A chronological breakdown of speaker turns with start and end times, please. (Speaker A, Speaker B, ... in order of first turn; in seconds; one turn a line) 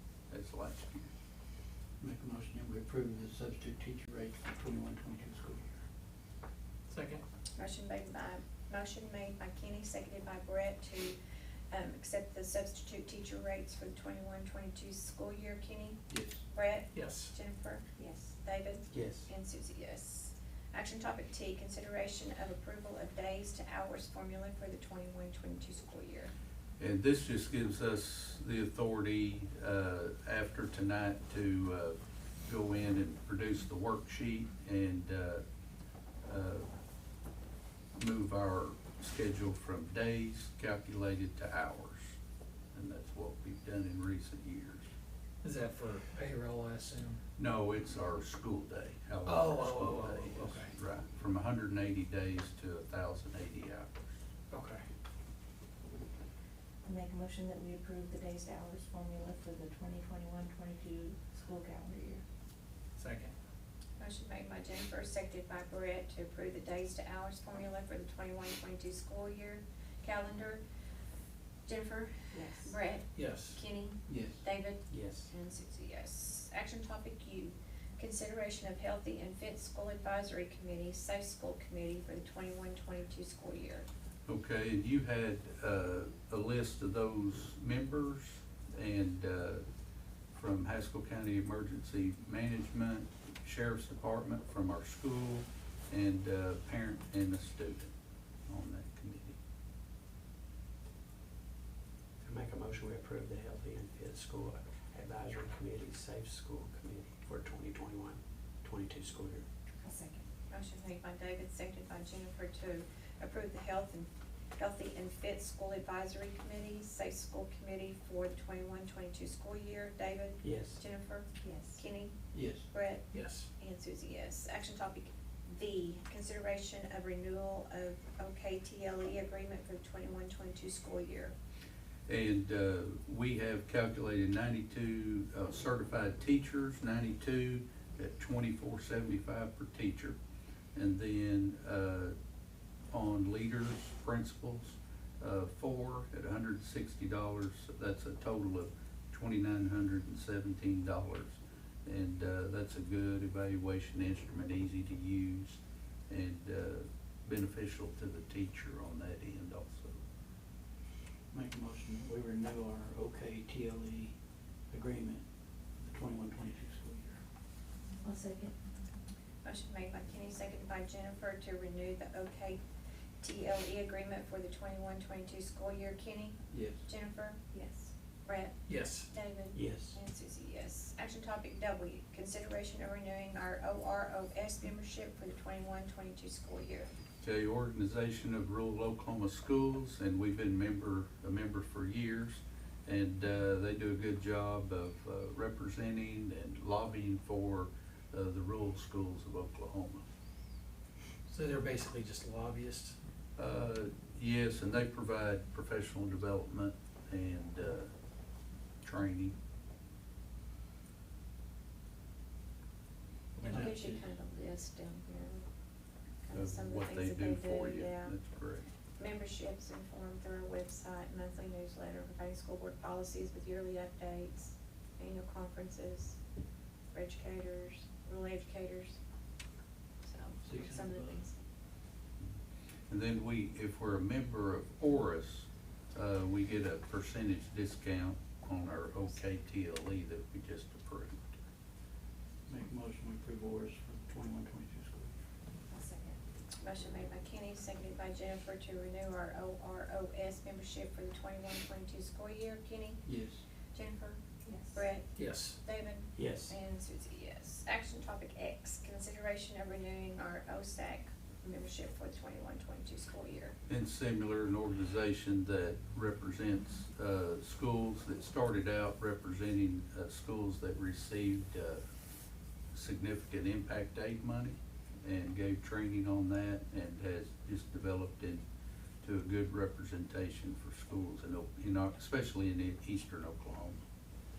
Speaker A: 0.3-1.1
Speaker B: 2.0-5.7
Speaker C: 6.9-7.2
Speaker D: 7.5-11.2
Speaker D: 11.7-26.3
Speaker B: 16.1-16.4
Speaker C: 16.9-17.3
Speaker E: 18.9-19.3
Speaker A: 26.8-35.4
Speaker A: 36.2-36.6
Speaker A: 38.0-42.1
Speaker A: 42.7-44.9
Speaker C: 45.4-47.2
Speaker A: 47.4-54.1
Speaker C: 49.2-50.7
Speaker C: 54.5-54.8
Speaker F: 56.8-62.2
Speaker C: 63.0-63.3
Speaker D: 64.0-70.6
Speaker D: 71.7-83.9
Speaker F: 72.3-72.7
Speaker C: 73.1-73.6
Speaker B: 74.1-74.4
Speaker E: 74.9-75.3
Speaker A: 84.2-89.6
Speaker A: 90.3-97.9
Speaker A: 98.5-99.4
Speaker E: 102.2-109.5
Speaker F: 109.8-110.2
Speaker D: 110.5-122.1
Speaker E: 120.4-120.8
Speaker F: 121.4-121.8
Speaker B: 122.3-122.7
Speaker D: 122.7-131.3
Speaker C: 123.1-123.5
Speaker A: 132.1-140.2
Speaker A: 140.7-142.1
Speaker A: 142.9-160.0
Speaker B: 161.3-164.2
Speaker B: 164.7-165.2
Speaker B: 165.8-167.2
Speaker F: 168.0-168.5
Speaker D: 169.4-172.6
Speaker D: 173.2-177.5
Speaker B: 176.5-176.8
Speaker D: 178.2-178.6
Speaker C: 178.7-179.1
Speaker D: 179.1-186.9
Speaker E: 179.5-180.0
Speaker A: 187.2-200.0
Speaker C: 201.3-203.0
Speaker A: 203.4-207.9
Speaker A: 208.8-209.3
Speaker B: 213.4-214.1
Speaker D: 213.4-215.5
Speaker D: 216.2-218.1
Speaker A: 216.3-218.6
Speaker D: 219.0-226.2
Speaker D: 226.9-229.0
Speaker D: 230.0-231.3
Speaker B: 230.4-231.2
Speaker A: 232.9-241.4
Speaker B: 242.5-245.1
Speaker F: 245.7-246.2
Speaker D: 246.6-253.0
Speaker B: 253.0-253.4
Speaker D: 253.7-254.2
Speaker F: 254.4-254.8
Speaker D: 254.7-263.6
Speaker C: 255.1-255.6
Speaker E: 256.1-256.6
Speaker A: 263.7-271.8
Speaker A: 272.7-278.4
Speaker A: 279.0-283.8